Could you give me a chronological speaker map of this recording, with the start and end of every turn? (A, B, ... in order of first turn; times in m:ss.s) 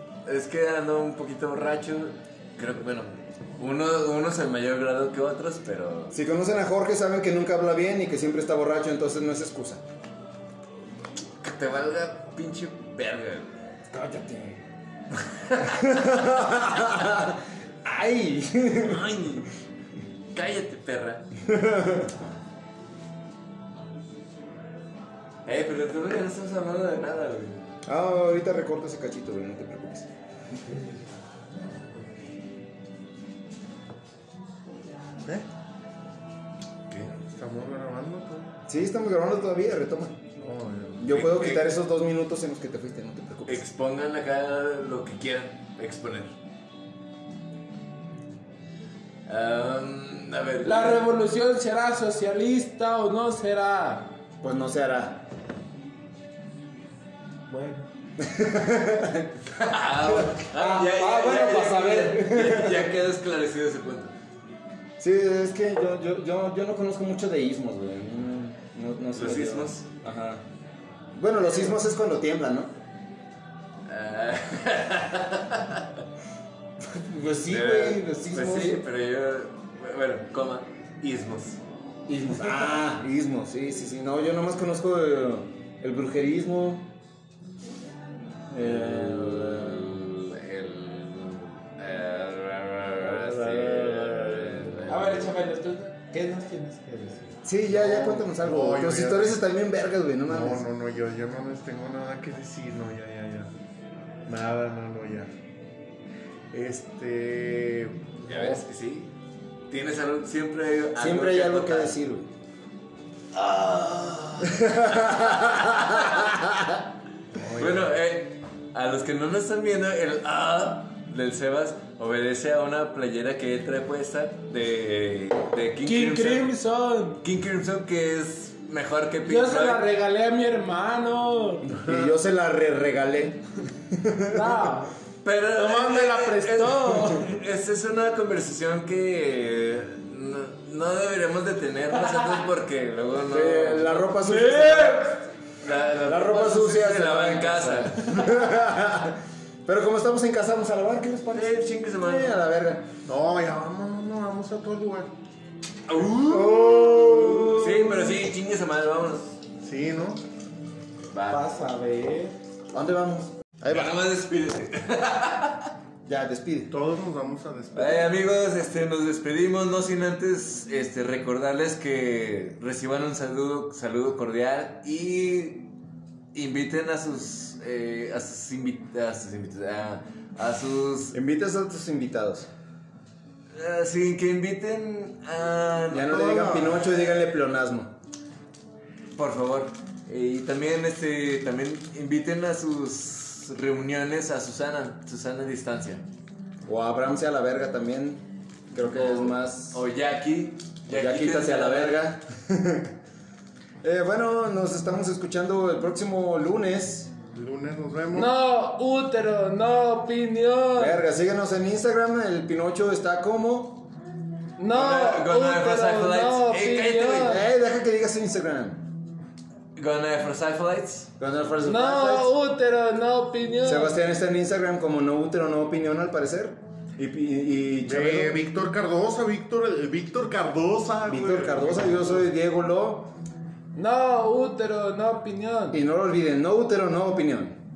0:00.2-0:06.1 A
0:06.1-0:09.8 B
0:11.4-0:13.7 A
0:13.9-0:14.6 B
0:15.2-0:16.9 A
0:15.6-0:19.1 B
0:18.8-0:19.5 A
0:20.3-0:21.3 A
0:21.4-0:22.1 B
0:25.4-0:27.7 A
0:27.8-0:30.1 B
0:37.2-0:38.5 C
0:38.7-0:40.2 B
0:40.4-0:41.1 C
0:41.0-0:43.6 B
0:41.1-0:41.6 A
0:43.5-0:46.3 A
0:49.3-0:51.1 A
0:50.6-0:54.1 D
0:54.4-0:55.2 B
0:57.5-0:57.9 D
0:58.2-0:59.5 B
0:59.5-1:04.1 A
1:00.0-1:02.9 B
1:05.0-1:10.4 B
1:09.1-1:09.8 A
1:11.1-1:12.7 B
1:13.8-1:16.0 A
1:16.8-1:18.8 B
1:17.5-1:21.6 A
1:22.1-1:26.9 B
1:28.5-1:30.0 B
1:28.6-1:35.3 A
1:33.6-1:34.1 D
1:34.8-1:37.3 D
1:37.4-1:40.6 B
1:37.7-1:39.4 C
1:40.3-1:43.5 C
1:44.2-1:45.3 C
1:46.5-1:48.6 C
1:48.2-1:49.1 A
1:49.7-1:52.0 A
1:51.0-1:52.3 B
1:53.3-1:56.3 A
1:54.4-1:56.7 B
1:57.3-1:57.9 C
1:57.6-2:06.5 A
2:05.8-2:07.2 D
2:07.2-2:09.8 A
2:09.2-2:11.8 D
2:11.7-2:14.8 B
2:11.8-2:12.1 C
2:14.3-2:14.9 D
2:15.2-2:28.2 A
2:15.5-2:17.4 D
2:23.2-2:25.2 B
2:26.0-2:32.9 B
2:31.3-2:32.4 A
2:33.1-2:35.1 C
2:35.9-2:39.3 A
2:36.2-2:38.2 B
2:39.6-2:40.2 C
2:41.1-2:41.5 A
2:41.3-2:42.3 D
2:42.7-2:44.0 B
2:43.7-2:45.7 A
2:46.0-2:46.7 B
2:46.7-2:48.1 C
2:47.7-2:55.7 A
2:56.3-3:01.1 A
3:01.1-3:02.5 B
3:03.5-3:07.2 A
3:05.9-3:07.9 B
3:09.1-3:16.0 A
3:16.6-3:19.8 B
3:18.8-3:22.1 A
3:20.9-3:22.9 B
3:23.8-3:27.1 B
3:27.3-3:28.3 C
3:28.1-3:31.0 D
3:30.8-3:33.9 B
3:34.6-3:37.4 D
3:34.7-3:37.4 A
3:37.2-3:38.8 B
3:39.7-3:41.1 A
3:41.2-3:42.3 B
3:41.6-3:44.0 D
3:43.6-3:48.4 B
3:47.8-3:52.2 C
3:51.1-3:53.1 B
3:53.7-3:55.8 D
3:55.7-3:57.6 B